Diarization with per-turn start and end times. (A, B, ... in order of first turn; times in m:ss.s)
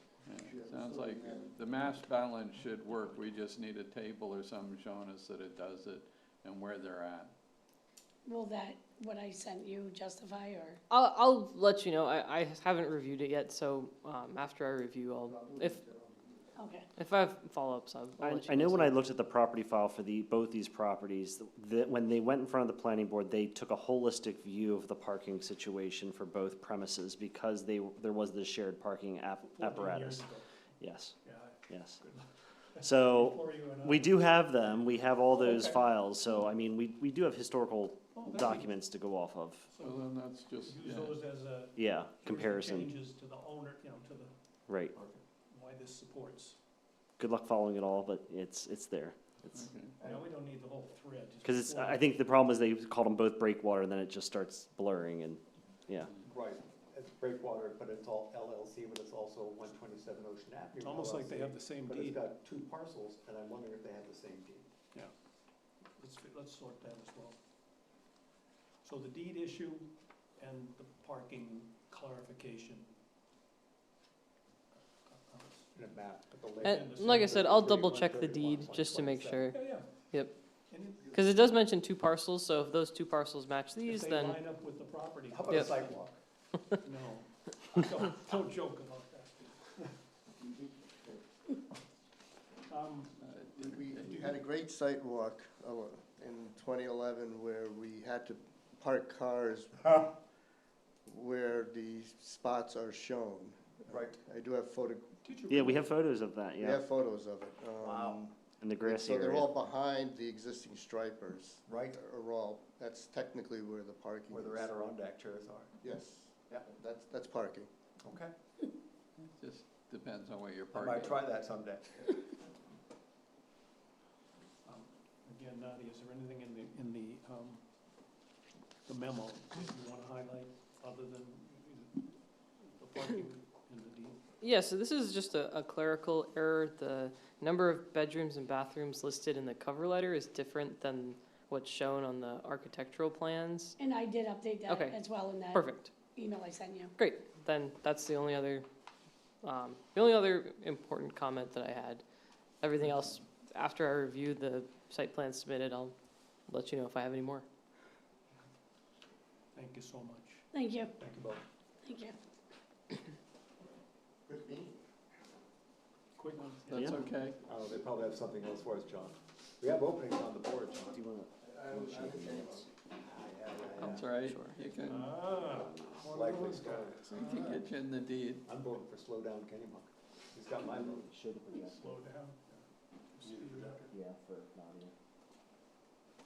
0:00.3-0:07.3 A
0:00.4-0:01.6 B
0:08.2-0:10.8 C
0:10.9-0:15.8 D
0:15.2-0:16.5 B
0:16.6-0:16.9 C
0:17.0-0:19.0 D
0:18.2-0:30.3 E
0:29.4-0:30.5 F
0:30.8-0:31.2 E
0:31.2-0:32.2 F
0:31.7-0:32.0 E
0:32.8-0:34.3 F
0:32.8-0:39.7 E
0:35.5-0:35.8 F
0:38.1-0:38.8 F
0:39.7-0:40.1 F
0:39.8-0:41.2 A
0:40.6-0:44.3 F
0:41.8-0:42.9 E
0:44.7-0:44.9 E
0:45.0-0:45.2 G
0:45.5-0:46.6 F
0:47.2-0:49.7 E
0:49.5-0:49.9 A
0:50.0-0:52.1 F
0:51.4-0:56.1 E
0:56.2-1:04.7 G
1:00.8-1:02.2 F
1:06.0-1:07.4 F
1:08.8-1:12.9 F
1:15.0-1:15.7 F
1:15.8-1:19.5 G
1:16.6-1:20.3 D
1:16.6-1:17.8 F
1:19.5-1:20.0 F
1:20.7-1:21.5 F
1:21.1-1:24.4 D
1:23.8-1:26.0 F
1:25.3-1:26.2 G
1:26.7-1:29.8 F
1:30.4-1:31.2 G
1:32.7-1:33.2 F
1:33.2-1:34.4 A
1:33.6-1:40.1 B
1:33.9-1:34.4 F
1:41.1-1:45.1 B
1:43.9-1:44.2 G
1:45.2-1:45.9 F
1:45.5-1:46.8 E
1:46.6-1:54.7 B
1:47.8-1:48.3 G
1:48.6-1:49.5 E
1:51.7-1:52.0 G
1:54.3-1:55.8 G
1:55.8-1:57.7 B
1:58.0-1:58.3 G
1:59.2-2:01.3 A
2:00.7-2:02.1 G
2:04.6-2:07.6 F
2:08.9-2:12.1 F
2:12.6-2:14.2 F
2:14.4-2:23.8 D
2:23.8-2:26.9 C
2:24.7-2:25.0 D
2:25.5-2:25.9 D
2:27.0-2:28.6 D
2:29.4-2:32.0 D
2:32.6-2:35.9 D
2:36.5-2:37.4 D
2:39.5-2:41.4 F
2:40.5-2:40.9 C
2:41.8-2:42.2 C
2:44.3-2:44.8 B
2:46.2-2:46.9 F
2:46.4-2:47.4 A
2:46.7-2:47.0 E
2:47.5-2:51.0 G
2:50.9-2:52.7 E
2:53.0-2:54.2 G
2:53.8-2:54.6 D
2:53.8-2:55.2 A
2:54.8-2:57.5 F
2:55.4-2:56.0 E
2:56.1-2:57.2 G
2:57.1-2:58.4 A
2:58.5-3:01.1 G
3:00.6-3:02.1 E
3:01.7-3:03.8 F
3:03.2-3:03.9 G
3:03.9-3:04.9 E